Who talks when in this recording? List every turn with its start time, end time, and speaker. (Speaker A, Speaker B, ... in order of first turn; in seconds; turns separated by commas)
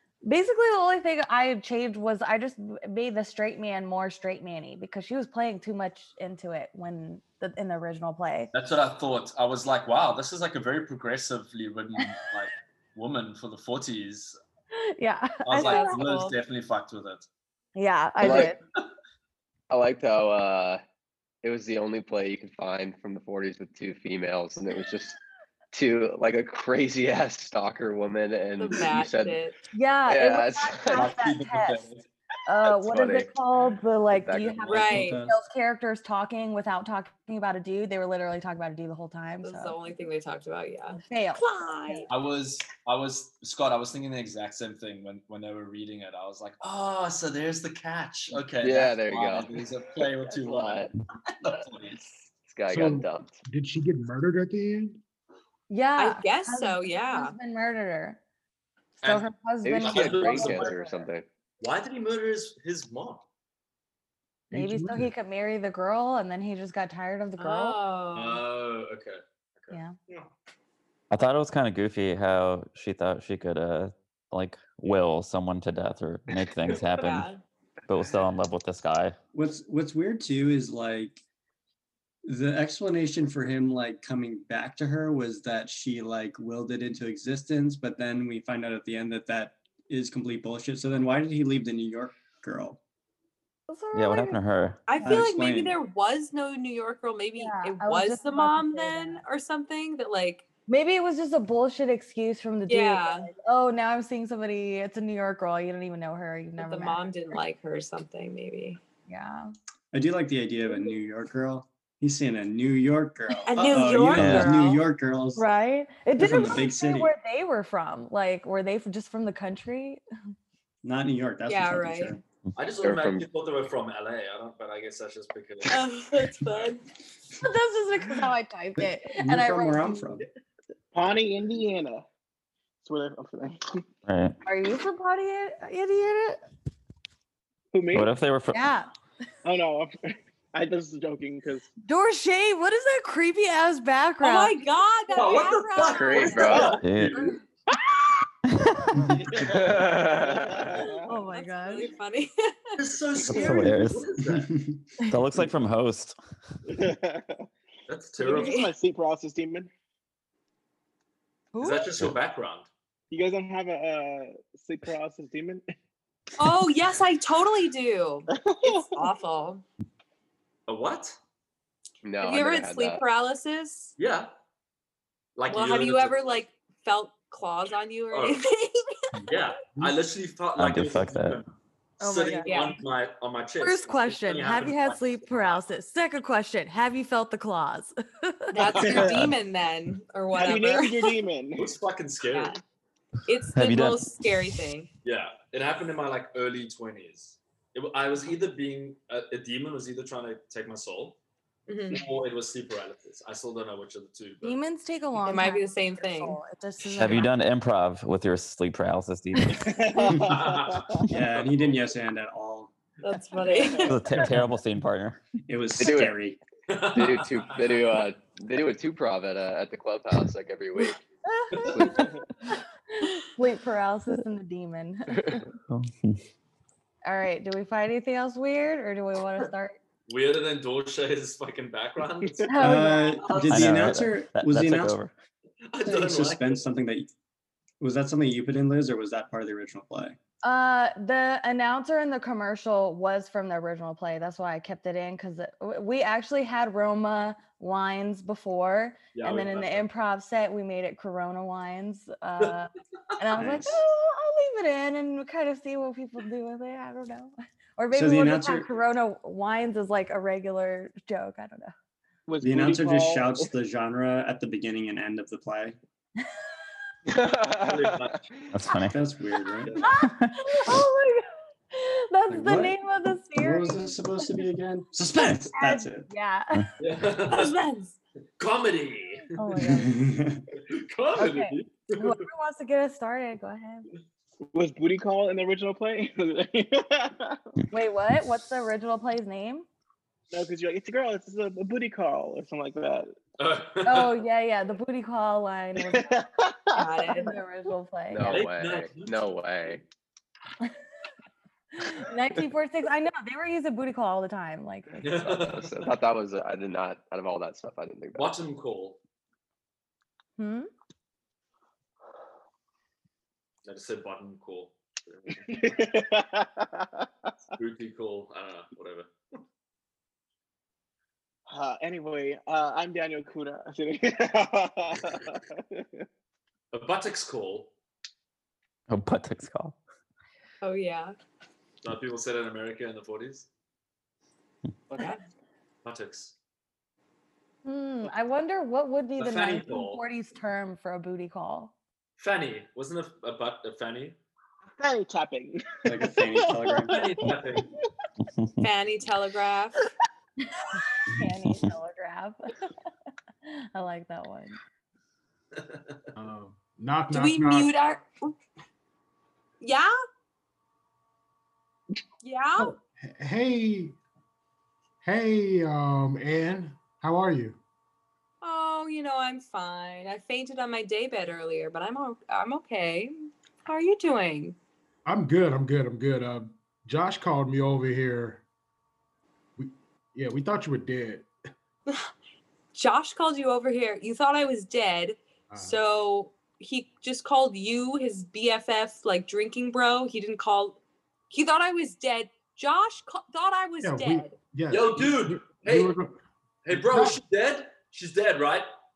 Speaker A: 0.2-8.5, Speaker B: 8.5-14.4, Speaker A: 14.8-16.1, Speaker B: 15.4-17.3, Speaker C: 15.6-16.4, Speaker A: 17.8-18.6, Speaker B: 18.2-18.5, Speaker D: 18.2-18.5, Speaker D: 19.7-20.8, Speaker D: 21.4-25.2, Speaker D: 25.7-29.4, Speaker C: 28.6-29.6, Speaker A: 29.7-31.9, Speaker D: 30.1-31.1, Speaker B: 30.9-32.0, Speaker A: 32.5-39.8, Speaker D: 32.6-33.3, Speaker D: 34.1-35.3, Speaker C: 34.7-35.2, Speaker E: 34.8-35.3, Speaker C: 39.4-42.1, Speaker A: 41.0-42.0, Speaker B: 42.1-52.1, Speaker D: 48.6-49.6, Speaker D: 50.2-50.9, Speaker D: 52.5-53.4, Speaker F: 52.7-55.0, Speaker A: 55.7-58.2, Speaker C: 56.0-57.4, Speaker A: 59.0-61.1, Speaker B: 59.0-59.3, Speaker D: 59.6-61.3, Speaker B: 59.8-60.8, Speaker B: 61.6-63.2, Speaker A: 64.5-67.8, Speaker F: 64.5-65.1, Speaker C: 67.4-68.4, Speaker B: 68.2-70.3, Speaker G: 71.1-77.3, Speaker C: 77.0-77.4, Speaker G: 77.9-79.2, Speaker E: 79.3-81.2, Speaker E: 82.2-92.8, Speaker A: 93.7-94.4, Speaker G: 93.9-94.8, Speaker C: 94.9-100.5, Speaker E: 95.0-95.8, Speaker A: 97.4-99.2, Speaker A: 100.7-107.4, Speaker C: 102.7-103.3, Speaker C: 106.6-108.8, Speaker A: 109.1-109.5, Speaker E: 109.9-115.5, Speaker C: 113.5-114.8, Speaker G: 114.2-114.5, Speaker A: 115.4-120.0, Speaker E: 116.2-117.1, Speaker E: 120.8-122.2, Speaker C: 121.5-122.2, Speaker B: 122.6-126.7, Speaker D: 122.8-123.3, Speaker C: 125.7-126.8, Speaker A: 127.4-130.1, Speaker E: 128.8-130.2, Speaker H: 130.9-132.1, Speaker H: 132.8-133.8, Speaker G: 134.1-134.4, Speaker A: 134.4-136.4, Speaker H: 137.7-138.1, Speaker G: 137.9-138.6, Speaker A: 138.5-138.9, Speaker H: 139.4-139.9, Speaker H: 140.5-141.7, Speaker A: 141.9-144.5, Speaker C: 144.2-147.3, Speaker B: 145.1-147.4, Speaker D: 145.9-146.8, Speaker H: 146.5-146.8, Speaker G: 146.8-147.3, Speaker H: 147.7-148.3, Speaker G: 148.6-148.8, Speaker B: 148.9-150.1, Speaker D: 149.4-150.9, Speaker H: 150.1-151.2, Speaker A: 151.1-151.9, Speaker C: 151.3-152.8, Speaker B: 152.8-154.5, Speaker G: 153.3-154.1, Speaker E: 154.3-154.7, Speaker G: 155.1-156.2, Speaker H: 156.7-157.5, Speaker B: 157.9-158.6, Speaker H: 158.2-159.7, Speaker C: 158.2-158.7, Speaker A: 161.5-161.9, Speaker B: 161.6-162.7, Speaker H: 163.1-165.6, Speaker C: 166.4-169.6, Speaker H: 168.4-168.9, Speaker B: 170.7-171.2, Speaker D: 172.0-173.0, Speaker C: 172.2-173.9, Speaker B: 174.0-174.3, Speaker B: 175.4-176.2, Speaker C: 175.5-179.1, Speaker B: 178.1-178.4, Speaker B: 179.2-185.6, Speaker G: 180.6-181.4, Speaker A: 182.0-182.8, Speaker C: 182.5-182.8, Speaker A: 183.6-188.5, Speaker C: 188.5-191.1, Speaker B: 188.7-189.1, Speaker H: 188.8-189.3, Speaker H: 190.4-191.7, Speaker B: 191.6-192.6, Speaker C: 192.3-192.6, Speaker C: 193.3-194.9, Speaker G: 193.6-194.1, Speaker B: 195.0-201.2, Speaker C: 201.7-202.0, Speaker B: 201.9-204.6, Speaker A: 204.4-207.3, Speaker C: 205.3-206.4, Speaker G: 207.0-209.8, Speaker H: 209.7-211.0, Speaker B: 210.1-211.8, Speaker E: 211.1-212.7, Speaker C: 213.0-213.9, Speaker A: 213.5-213.9, Speaker G: 213.8-215.2, Speaker E: 215.5-216.4, Speaker D: 215.8-216.1, Speaker B: 216.7-217.8, Speaker D: 216.9-221.0, Speaker A: 221.3-225.4, Speaker B: 221.5-221.9, Speaker D: 221.7-222.2, Speaker D: 225.1-225.4, Speaker G: 225.7-226.2, Speaker A: 227.1-229.8, Speaker B: 230.1-233.9, Speaker A: 232.5-233.4, Speaker E: 232.6-235.0, Speaker G: 233.5-235.1, Speaker B: 235.7-236.6, Speaker E: 235.8-237.1, Speaker E: 237.8-240.2, Speaker A: 240.4-261.7, Speaker B: 249.1-249.9, Speaker E: 253.4-253.8, Speaker E: 257.9-258.7, Speaker H: 262.3-263.5, Speaker E: 262.4-265.8, Speaker D: 267.1-268.5, Speaker B: 267.6-268.2, Speaker G: 268.5-269.0, Speaker E: 268.9-269.8, Speaker A: 269.8-274.3, Speaker G: 270.0-270.4, Speaker E: 272.3-272.8, Speaker E: 273.4-276.1, Speaker A: 275.6-276.7, Speaker B: 276.8-277.6, Speaker C: 277.3-278.0, Speaker B: 278.4-279.8, Speaker A: 279.4-280.1, Speaker E: 279.7-280.4, Speaker B: 280.6-282.2, Speaker A: 281.2-283.9, Speaker H: 284.4-287.5, Speaker A: 287.7-289.7, Speaker H: 290.3-293.1, Speaker B: 293.4-294.2, Speaker A: 293.8-296.1, Speaker H: 295.8-297.3, Speaker C: 296.8-297.3, Speaker A: 297.1-298.4, Speaker D: 298.1-299.8, Speaker B: 298.2-299.1, Speaker A: 301.8-305.6, Speaker B: 305.0-305.7, Speaker D: 305.4-308.3, Speaker B: 308.1-309.0, Speaker A: 310.4-310.7, Speaker B: 313.6-315.8, Speaker H: 315.5-317.3, Speaker B: 317.6-319.1, Speaker H: 321.5-326.1, Speaker B: 326.7-327.7, Speaker G: 328.9-329.8, Speaker C: 330.6-331.1, Speaker B: 331.8-333.5, Speaker C: 334.9-335.2, Speaker B: 335.8-336.3, Speaker A: 337.6-341.7, Speaker B: 339.2-340.0, Speaker B: 342.2-344.2, Speaker H: 344.7-347.8, Speaker E: 345.9-347.0, Speaker B: 346.9-347.7, Speaker C: 348.6-349.9, Speaker A: 350.5-352.7, Speaker A: 353.4-354.6, Speaker B: 355.6-356.0, Speaker F: 356.2-357.7, Speaker C: 357.1-358.4, Speaker C: 359.6-359.9, Speaker C: 362.2-362.8, Speaker F: 362.6-364.0, Speaker F: 365.0-367.6, Speaker C: 368.4-374.6, Speaker F: 375.1-378.4, Speaker F: 379.6-381.3, Speaker C: 382.8-390.8, Speaker F: 385.5-385.8, Speaker C: 391.3-394.4, Speaker F: 393.8-396.2, Speaker B: 394.7-396.0, Speaker B: 396.6-398.7, Speaker F: 396.7-397.2